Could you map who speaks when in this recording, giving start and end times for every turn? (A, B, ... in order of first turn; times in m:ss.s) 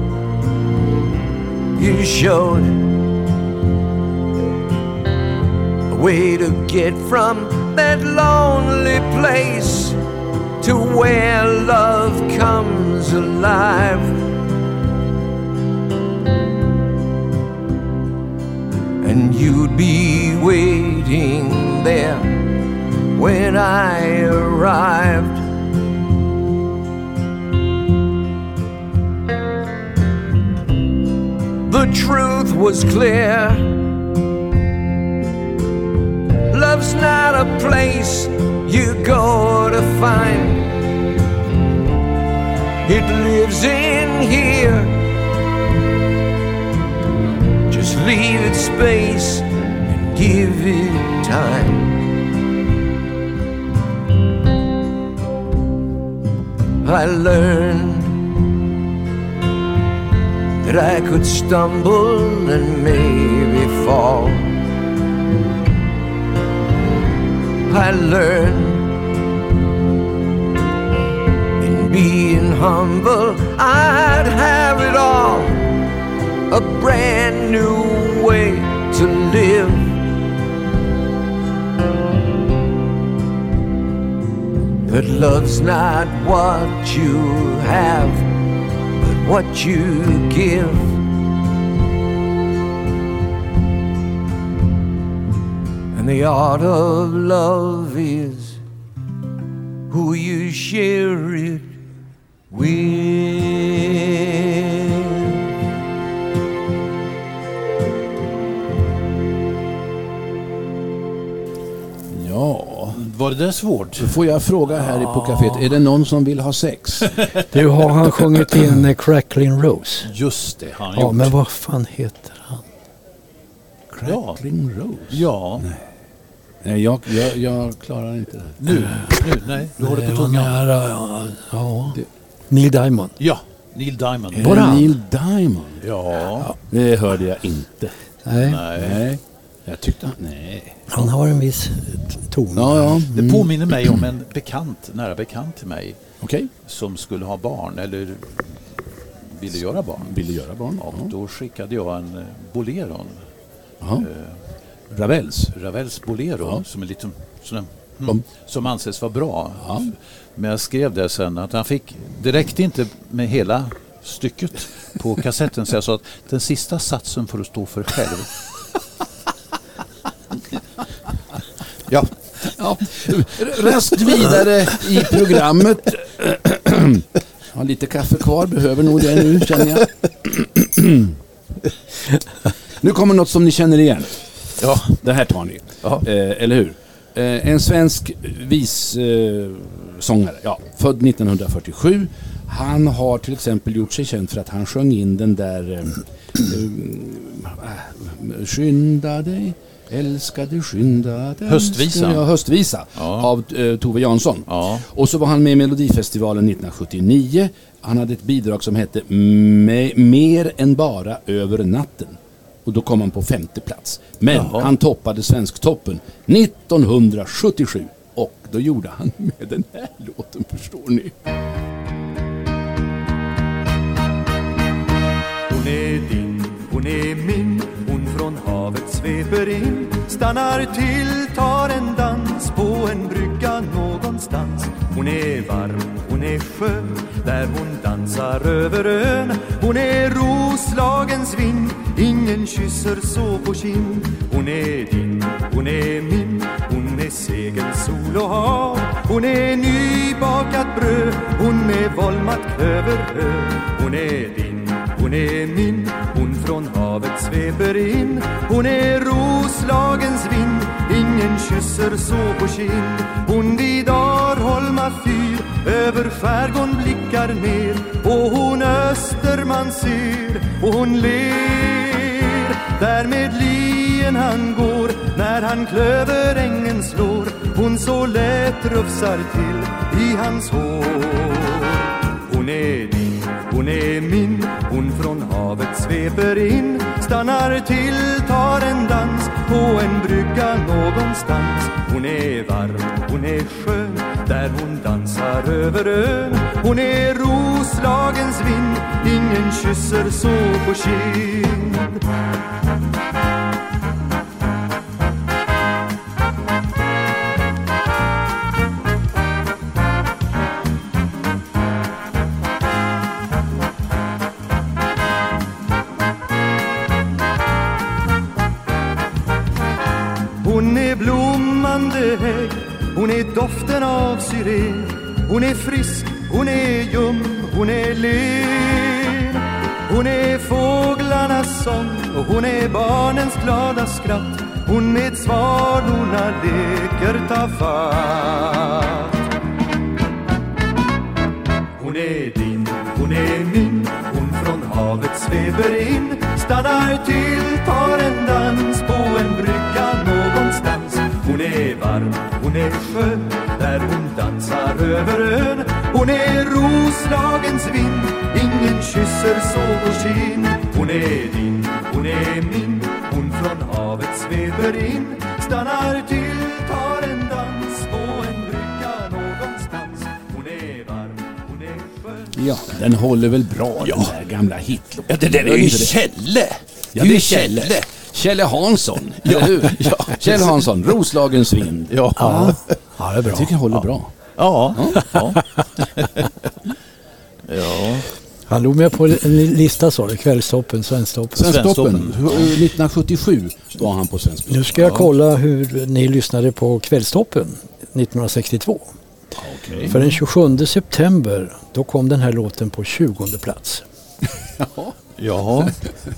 0:01.7-0:02.9 A
0:05.9-0:10.0 A
0:10.6-0:14.2 A
0:19.0-0:22.5 A
0:23.1-0:25.4 A
0:31.6-0:33.8 A
0:36.5-0:40.7 A
0:42.8-0:45.0 A
0:47.7-0:52.0 A
0:56.8-0:58.2 A
1:00.6-1:04.6 A
1:07.7-1:08.9 A
1:11.6-1:15.7 A
1:16.5-1:20.0 A
1:24.8-1:28.3 A
1:29.0-1:31.0 A
1:35.9-1:38.6 A
1:39.9-1:41.7 A
1:42.5-1:44.5 A
1:52.1-1:53.0 B
1:52.9-1:54.2 C
1:54.0-1:57.1 B
1:57.5-2:00.1 D
2:00.1-2:01.3 C
2:00.9-2:02.6 D
2:03.9-2:05.8 B
2:04.0-2:04.4 C
2:05.1-2:05.6 C
2:06.6-2:08.9 B
2:08.6-2:10.6 C
2:09.8-2:12.0 D
2:12.5-2:13.1 D
2:13.2-2:14.8 C
2:14.3-2:15.8 B
2:14.4-2:14.9 D
2:15.8-2:16.5 C
2:16.6-2:18.0 B
2:18.3-2:18.6 D
2:18.4-2:19.0 C
2:18.5-2:21.0 B
2:20.9-2:22.9 D
2:22.5-2:24.0 B
2:23.1-2:26.0 C
2:26.2-2:26.5 B
2:26.6-2:28.6 C
2:29.2-2:30.2 C
2:30.0-2:31.1 B
2:30.8-2:33.2 C
2:33.8-2:34.1 B
2:34.0-2:34.4 C
2:34.9-2:35.5 B
2:35.5-2:48.4 C
2:39.6-2:39.9 B
2:51.9-2:52.5 C
2:52.6-3:01.1 B
3:02.8-3:04.2 B
3:04.6-3:05.0 C
3:04.9-3:41.1 B
3:21.5-3:22.2 C
3:23.0-3:23.3 C
3:24.5-3:24.8 C
3:34.3-3:34.7 C
3:45.5-5:02.0 E
5:20.4-5:39.2 E
5:41.8-6:12.3 E
6:12.3-6:16.0 B
6:13.8-6:14.1 C
6:15.1-6:17.8 C
6:16.9-6:22.6 B
6:19.2-6:20.6 C
6:21.9-6:22.7 C
6:22.2-6:23.5 D
6:23.2-6:25.1 B
6:24.4-6:26.3 C
6:27.5-6:28.1 C
6:28.5-6:31.5 D
6:31.4-6:35.1 B
6:31.4-6:32.6 C
6:34.5-6:38.9 D
6:39.4-6:39.9 B
6:39.8-6:40.1 C
6:39.9-6:43.8 D
6:44.6-6:44.9 B
6:45.2-6:45.8 C